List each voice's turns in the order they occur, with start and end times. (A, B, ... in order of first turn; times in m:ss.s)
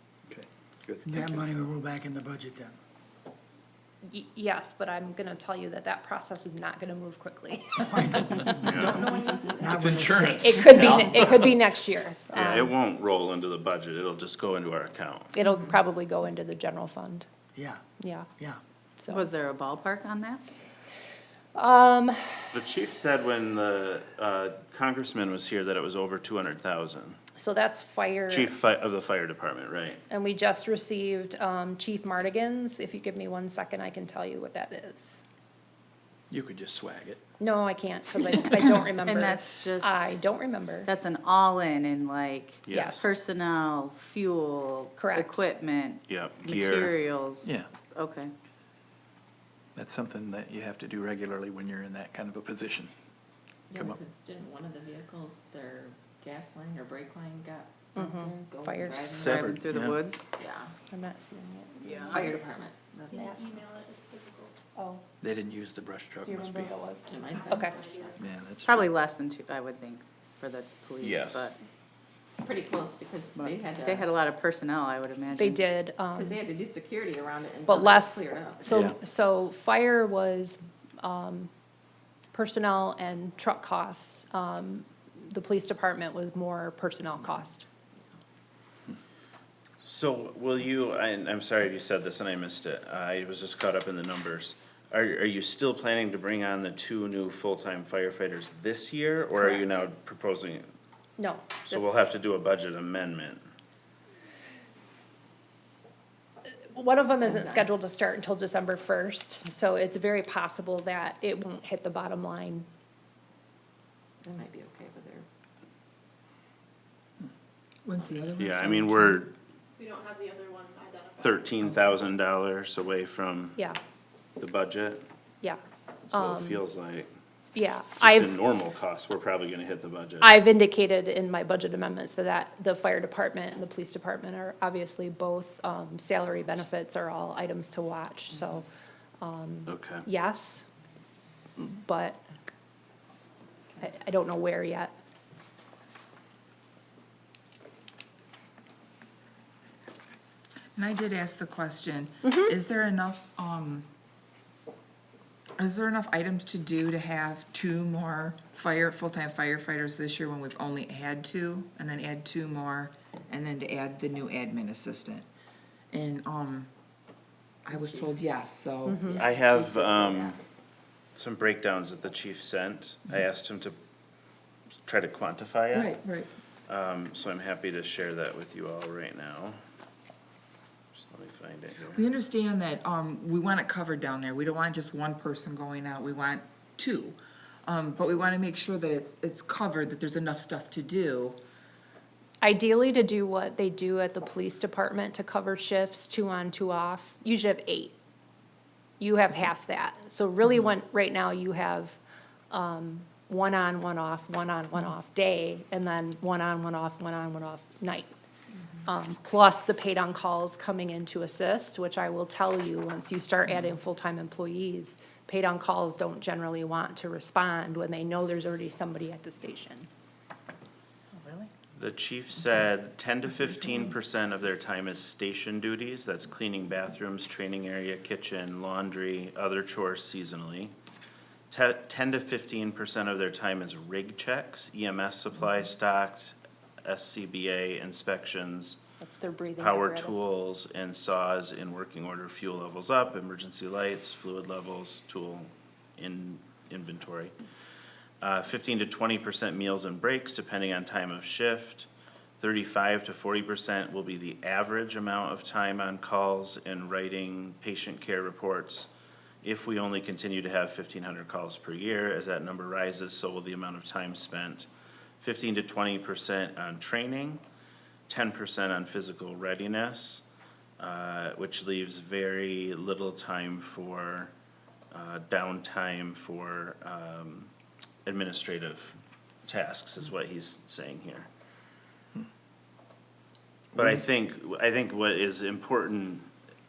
0:00.3-0:01.5 A
0:01.0-0:02.8 B
0:04.0-0:08.8 C
0:07.9-0:10.7 B
0:08.6-0:09.1 D
0:09.3-0:09.9 E
0:09.7-0:10.9 A
0:10.4-0:12.7 C
0:10.7-0:11.5 D
0:12.3-0:15.3 D
0:15.3-0:17.2 C
0:17.6-0:17.8 B
0:18.0-0:18.3 C
0:19.0-0:19.2 C
0:19.1-0:20.4 F
0:21.5-0:22.5 C
0:22.5-0:27.2 D
0:27.4-0:28.5 C
0:28.3-0:30.0 D
0:30.1-0:35.2 C
0:36.3-0:37.2 A
0:37.4-0:40.9 C
0:39.0-0:40.1 F
0:40.8-0:48.3 F
0:42.6-0:43.1 D
0:42.7-0:43.1 C
0:45.0-0:45.4 C
0:46.1-0:47.0 D
0:47.4-0:47.7 A
0:49.7-0:52.9 A
0:53.7-0:59.4 E
0:57.9-0:59.2 C
0:59.1-1:00.0 A
0:59.2-1:00.2 F
1:00.4-1:00.7 E
1:00.9-1:02.4 C
1:01.8-1:02.2 F
1:02.1-1:03.3 E
1:03.1-1:04.5 G
1:04.7-1:05.0 C
1:05.2-1:06.8 A
1:06.2-1:07.8 C
1:07.0-1:08.2 E
1:07.3-1:08.1 G
1:08.2-1:08.9 A
1:08.6-1:11.5 F
1:11.0-1:11.4 D
1:12.4-1:14.1 E
1:13.4-1:15.6 F
1:15.4-1:16.4 C
1:16.1-1:18.8 E
1:17.7-1:21.5 C
1:18.7-1:18.9 A
1:22.3-1:27.6 C
1:29.8-1:40.7 D
1:39.3-1:39.8 C
1:41.2-1:42.0 C
1:41.7-1:43.4 D
1:46.6-1:52.6 C
1:47.2-1:47.7 E
1:54.2-1:55.2 E
1:57.8-1:59.2 H
1:58.4-1:59.3 D
1:59.8-2:01.3 G
2:01.2-2:03.6 D
2:04.4-2:05.0 D
2:06.1-2:07.1 D
2:06.1-2:06.6 C
2:07.5-2:08.3 C
2:08.0-2:10.4 D
2:10.2-2:18.6 C
2:19.2-2:20.6 C
2:19.7-2:20.0 D
2:21.6-2:22.2 C
2:23.8-2:24.9 C
2:30.8-2:33.9 H
2:32.2-2:32.5 C
2:35.6-2:45.2 H
2:45.9-2:46.7 H
2:47.6-2:50.3 H
2:48.8-2:49.2 C
2:49.2-2:50.3 D
2:51.1-2:53.8 D
2:54.8-2:56.0 D
2:55.7-2:56.3 H
2:56.7-2:59.6 D
3:00.9-3:02.0 D
3:01.9-3:11.4 H
3:12.4-3:17.9 C
3:19.0-3:22.0 C
3:22.5-3:28.1 C
3:28.8-3:39.9 C
3:41.1-3:41.5 F
3:41.8-3:50.7 D
3:51.5-3:58.8 D
3:59.0-4:00.3 C
3:59.6-4:07.3 D
4:08.2-4:11.9 D
4:12.4-4:18.9 D
4:19.4-4:24.7 D
4:25.2-4:27.4 D
4:28.1-4:30.2 D
4:30.8-4:34.3 D
4:34.9-4:37.5 D
4:38.0-4:38.9 D
4:39.5-4:41.3 D
4:43.7-4:46.2 D